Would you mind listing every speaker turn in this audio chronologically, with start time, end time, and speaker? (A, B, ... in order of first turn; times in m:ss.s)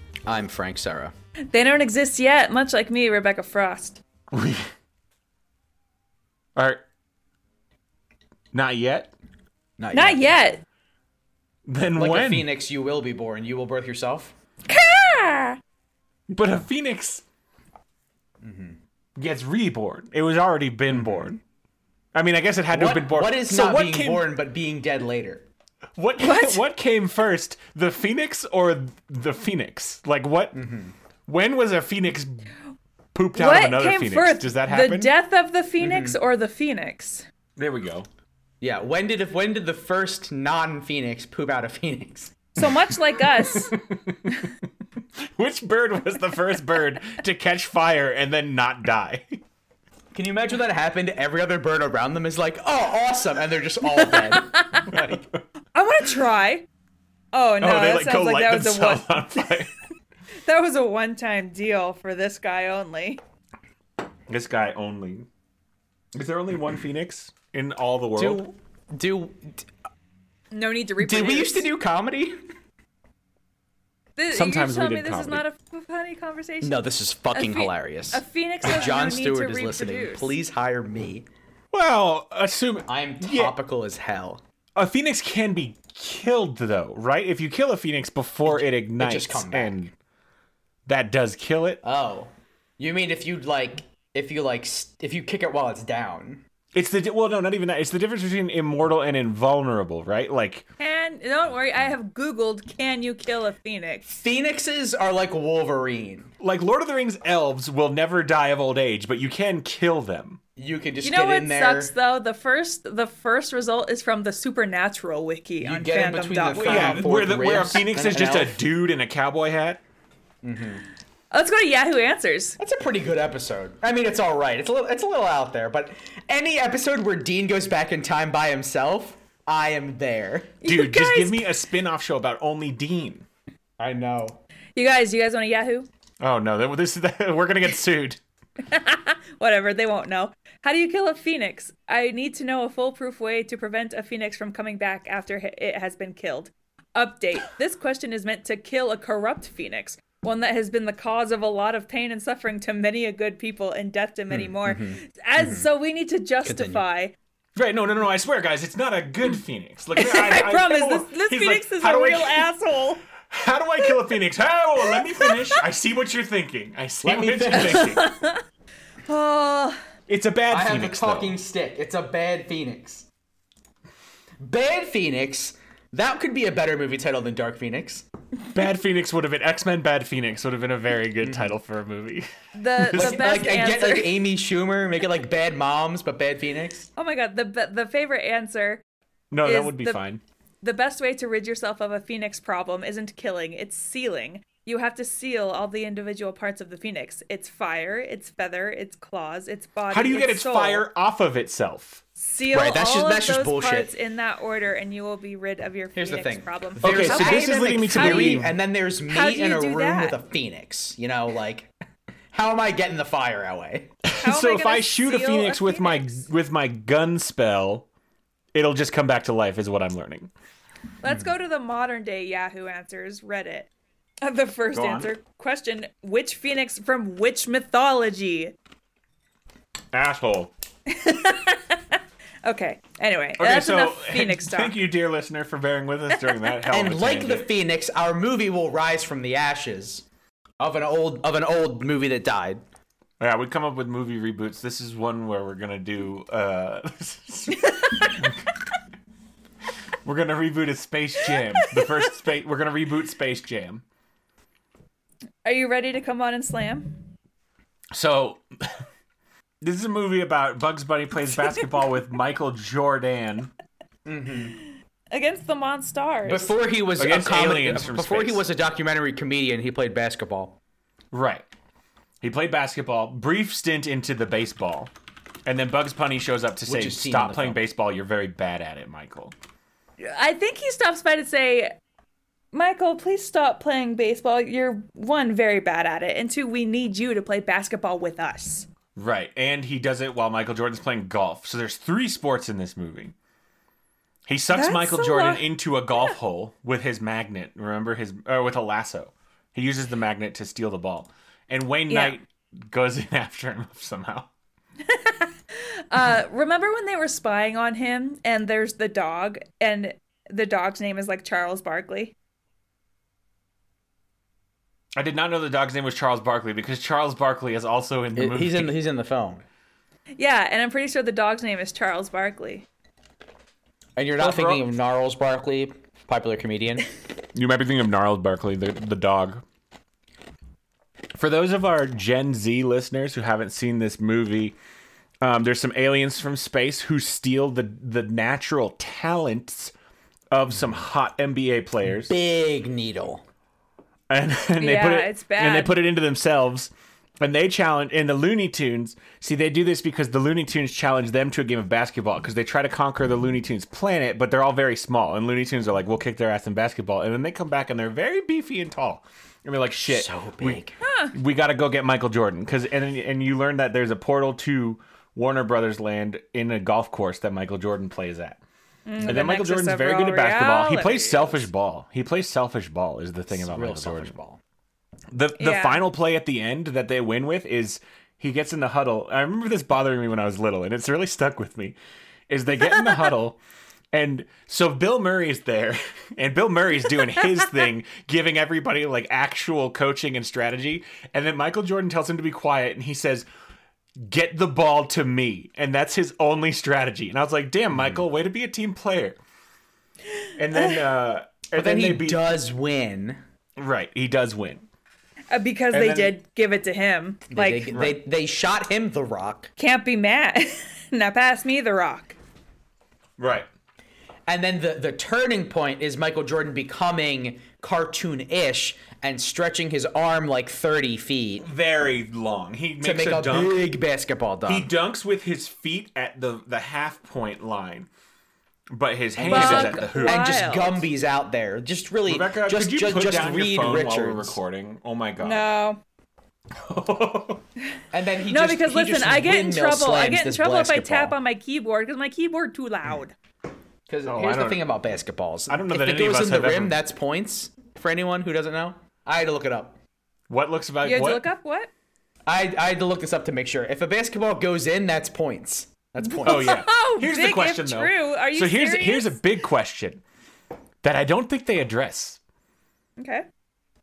0:00.2-0:01.1 A
0:01.5-0:04.0 B
0:04.3-0:04.7 C
0:06.6-0:06.8 C
0:08.5-0:09.1 C
0:09.8-0:10.2 A
0:09.9-0:10.6 B
0:11.6-0:12.5 C
0:12.0-0:14.3 A
0:14.7-0:15.6 B
0:16.3-0:17.2 C
0:18.4-0:18.8 A
0:19.2-0:21.4 C
0:20.9-0:21.3 A
0:22.1-0:24.2 C
0:22.7-0:25.5 A
0:26.0-0:30.6 C
0:26.2-0:26.6 B
0:30.5-0:30.9 A
0:31.3-0:32.5 C
0:33.1-0:35.1 C
0:33.3-0:37.2 B
0:35.8-0:36.2 A
0:37.6-0:38.1 C
0:38.6-0:42.4 A
0:42.5-0:43.7 B
0:43.4-0:44.6 C
0:45.2-0:49.4 C
0:50.1-0:55.2 A
0:54.0-0:54.9 B
0:54.9-0:55.2 C
0:55.7-0:56.6 B
0:57.3-0:59.6 B
0:57.6-0:59.7 C
1:00.4-1:03.2 B
1:04.3-1:05.3 C
1:06.1-1:08.4 C
1:08.2-1:09.7 A
1:10.5-1:11.7 B
1:11.0-1:12.4 A
1:14.2-1:20.3 B
1:14.3-1:15.4 C
1:16.6-1:21.2 A
1:21.7-1:23.5 C
1:22.9-1:24.4 A
1:24.8-1:29.9 C
1:28.4-1:29.7 A
1:30.8-1:31.8 C
1:31.8-1:36.4 A
1:36.7-1:40.6 C
1:40.8-1:44.0 B
1:44.1-1:46.3 A
1:46.4-1:50.4 C
1:50.6-1:51.9 A
1:51.0-1:57.2 B
1:55.6-1:58.6 A
1:56.5-1:59.8 C
2:00.4-2:00.8 A
2:01.3-2:02.6 B
2:02.6-2:10.6 A
2:10.6-2:11.4 B
2:10.6-2:13.2 C
2:13.8-2:14.4 A
2:14.8-2:15.9 B
2:16.2-2:18.2 C
2:18.6-2:37.1 B
2:34.3-2:35.7 A
2:36.4-2:36.8 A
2:37.6-2:42.4 C
2:40.0-2:43.0 B
2:43.3-2:48.0 C
2:43.8-2:44.0 B
2:44.8-2:45.6 B
2:47.0-2:47.9 A
2:47.6-2:48.4 B
2:49.0-2:49.8 B
2:50.1-2:51.4 C
2:50.5-2:53.0 A
2:54.4-2:58.0 A
2:58.5-3:02.3 C
3:01.2-3:01.5 A
3:02.5-3:04.2 B
3:02.8-3:03.2 C
3:02.9-3:06.9 A
3:07.0-3:08.8 B
3:09.3-3:10.2 C
3:09.4-3:10.0 B
3:10.6-3:20.8 B
3:19.9-3:22.0 C
3:22.2-3:28.4 B
3:22.5-3:23.9 A
3:25.9-3:31.7 A
3:26.8-3:28.5 C
3:29.1-3:30.2 B
3:32.3-3:33.9 A
3:34.0-3:37.8 C
3:34.2-3:36.2 B
3:38.5-3:40.3 C
3:41.0-3:43.7 B
3:44.2-3:48.5 B
3:44.7-3:45.1 C
3:49.9-3:50.5 C
3:50.9-3:54.8 B
3:53.4-3:57.5 C
3:56.2-3:56.5 B
3:56.7-4:00.0 A
4:00.6-4:02.6 A
4:03.2-4:08.4 C
4:07.6-4:08.3 B
4:10.0-4:13.8 C
4:11.2-4:12.1 B
4:15.4-4:17.0 B
4:17.9-4:18.4 C
4:19.6-4:23.5 C
4:21.3-4:21.6 B
4:24.0-4:24.6 A
4:24.6-4:26.5 B
4:26.2-4:30.6 A
4:27.0-4:28.4 C
4:31.1-4:31.4 C
4:32.2-4:34.9 C
4:35.4-4:39.3 C
4:36.6-4:37.6 A
4:40.0-4:41.8 B
4:42.5-4:48.7 B
4:49.0-4:53.1 C
4:54.3-5:04.3 C
4:54.5-4:56.1 B
5:01.9-5:02.2 B
5:04.9-5:12.1 B
5:15.0-5:18.7 C
5:18.1-5:19.4 A
5:20.2-5:22.6 B
5:24.0-5:26.8 A
5:24.2-5:24.6 C
5:27.3-5:29.4 C
5:31.1-5:34.5 C
5:35.2-5:39.7 C
5:40.3-5:42.1 C
5:42.1-5:43.2 A
5:44.1-6:08.4 C
5:44.6-5:45.8 B
5:59.9-6:00.7 A
6:00.8-6:01.1 B
6:08.8-6:11.4 B
6:09.0-6:14.1 C
6:13.3-6:14.4 A
6:15.1-6:21.8 C
6:15.4-6:15.8 B
6:22.3-6:23.4 C
6:23.9-6:33.2 C
6:34.0-6:39.2 C
6:40.4-6:42.2 C
6:40.5-6:40.8 B
6:41.5-6:43.2 A
6:43.6-6:44.6 C
6:45.3-6:47.7 B
6:45.7-6:46.1 C
6:47.3-6:49.5 A
6:47.7-6:48.0 C
6:49.6-6:52.2 B
6:53.2-6:53.5 C
6:54.3-7:01.4 A
7:01.4-7:03.6 C
7:02.8-7:04.7 A
7:04.5-7:07.9 C
7:08.7-7:10.3 C
7:09.2-7:14.4 A
7:09.3-7:10.8 B
7:12.1-7:15.4 C
7:15.2-7:15.8 B
7:16.5-7:17.4 C
7:17.9-7:21.2 A
7:18.3-7:23.1 B
7:23.9-7:29.8 A
7:24.0-7:24.6 C
7:25.5-7:26.8 C
7:30.3-7:31.2 C
7:30.8-7:31.7 B
7:32.2-7:36.6 A
7:36.0-7:39.2 B
7:36.2-7:40.0 C
7:40.8-7:42.2 C
7:43.0-7:43.3 B